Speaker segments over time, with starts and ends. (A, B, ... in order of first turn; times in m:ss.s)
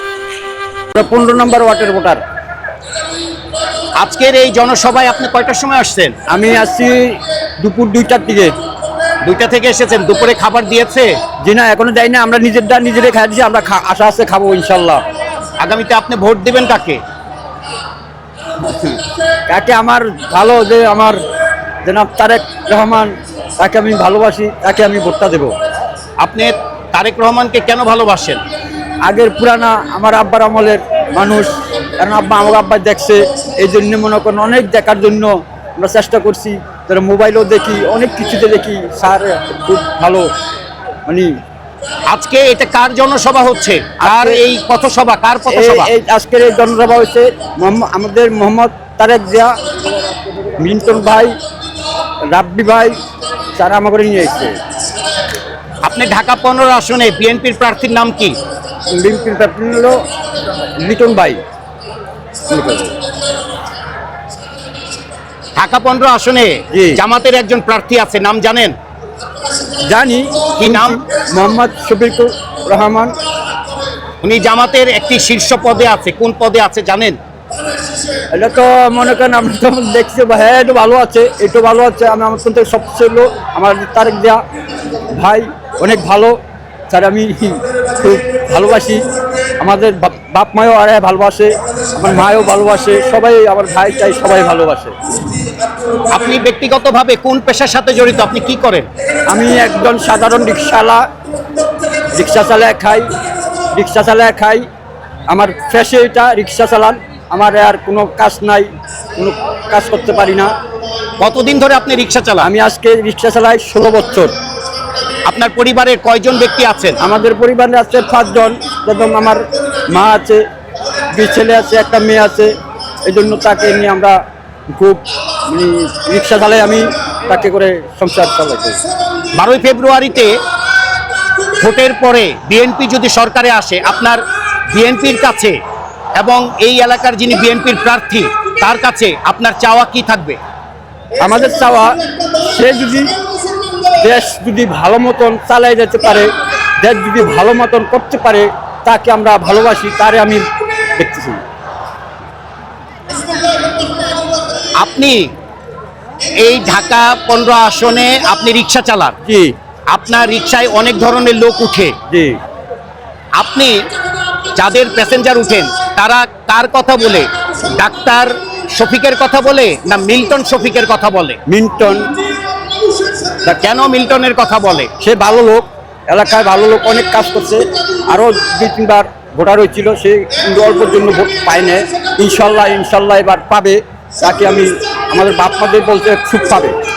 0:00.9-0:02.2 A
0:04.0-0:06.1 B
0:06.3-0:08.5 A
0:09.2-0:11.1 B
0:11.4-0:15.0 A
0:15.6-0:17.0 B
0:18.6-0:21.2 A
0:21.8-0:25.5 A
0:26.2-0:28.4 B
0:29.0-0:40.3 A
0:42.1-0:45.9 B
0:44.0-0:44.4 A
0:45.5-0:49.5 A
0:50.5-0:51.3 A
0:52.3-0:53.0 A
0:53.6-0:54.6 A
0:55.8-0:58.4 B
0:58.9-1:00.0 A
1:00.8-1:01.4 A
1:02.5-1:02.9 A
1:05.6-1:08.7 B
1:06.7-1:07.0 A
1:09.9-1:13.1 A
1:10.6-1:11.0 B
1:14.2-1:17.2 B
1:18.3-1:24.4 A
1:25.1-1:26.4 A
1:26.9-1:29.0 A
1:29.6-1:34.9 A
1:36.1-1:38.9 B
1:39.3-1:41.0 A
1:42.1-1:43.1 A
1:43.7-1:44.6 A
1:45.3-1:50.5 A
1:51.2-1:52.5 B
1:52.4-1:54.3 A
1:55.3-1:57.0 B
1:57.0-2:00.4 A
2:01.1-2:02.5 A
2:03.0-2:04.2 A
2:04.7-2:08.8 A
2:09.3-2:10.3 B
2:11.6-2:14.2 B
2:14.7-2:15.6 B
2:16.1-2:20.4 B
2:21.2-2:23.2 A
2:24.0-2:26.3 A
2:26.8-2:30.4 A
2:30.9-2:31.4 A
2:34.8-2:35.3 B
2:36.4-2:39.2 B
2:39.2-2:39.5 A
2:39.9-2:41.9 B
2:42.1-2:42.3 A
2:43.4-2:43.8 B
2:44.6-2:51.4 B
2:51.5-2:52.1 A
2:53.5-2:54.9 B
2:55.0-3:06.7 A